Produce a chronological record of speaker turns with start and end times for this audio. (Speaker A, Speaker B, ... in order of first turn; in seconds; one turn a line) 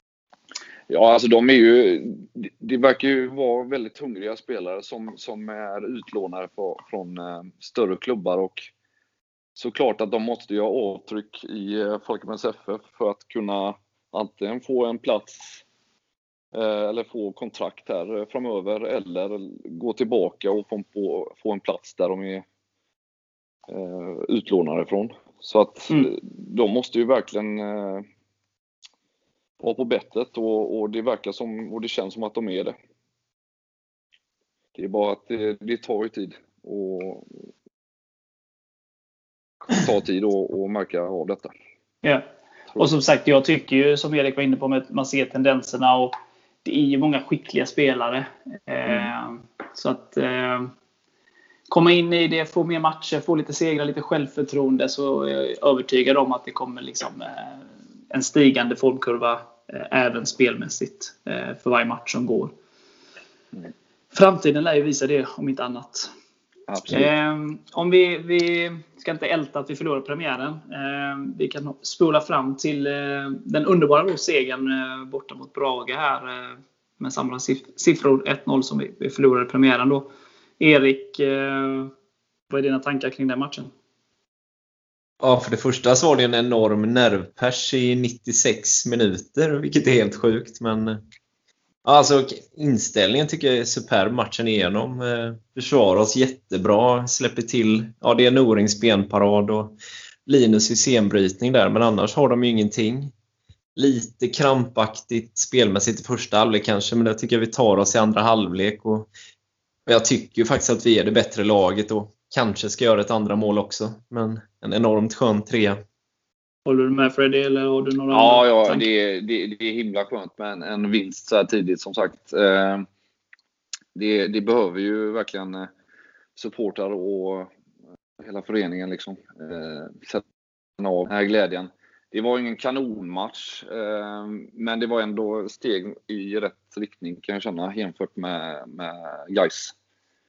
Speaker A: 0.9-8.7
Speaker A: 9.6-15.6
Speaker A: 16.5-22.4
Speaker A: 23.7-28.1
Speaker A: 29.6-32.8
Speaker A: 34.7-37.3
Speaker A: 39.6-41.5
Speaker B: 42.0-50.7
Speaker B: 51.7-62.5
Speaker B: 64.1-66.1
Speaker A: 66.7-67.1
Speaker B: 66.9-81.9
Speaker B: 82.5-83.7
Speaker C: 85.2-91.0
Speaker C: 91.8-103.1
Speaker C: 103.8-109.1
Speaker C: 109.9-115.8
Speaker B: 116.6-118.8
Speaker A: 118.1-122.8
Speaker A: 123.9-125.7
Speaker A: 126.3-127.5
Speaker A: 128.2-130.2
Speaker A: 130.8-139.7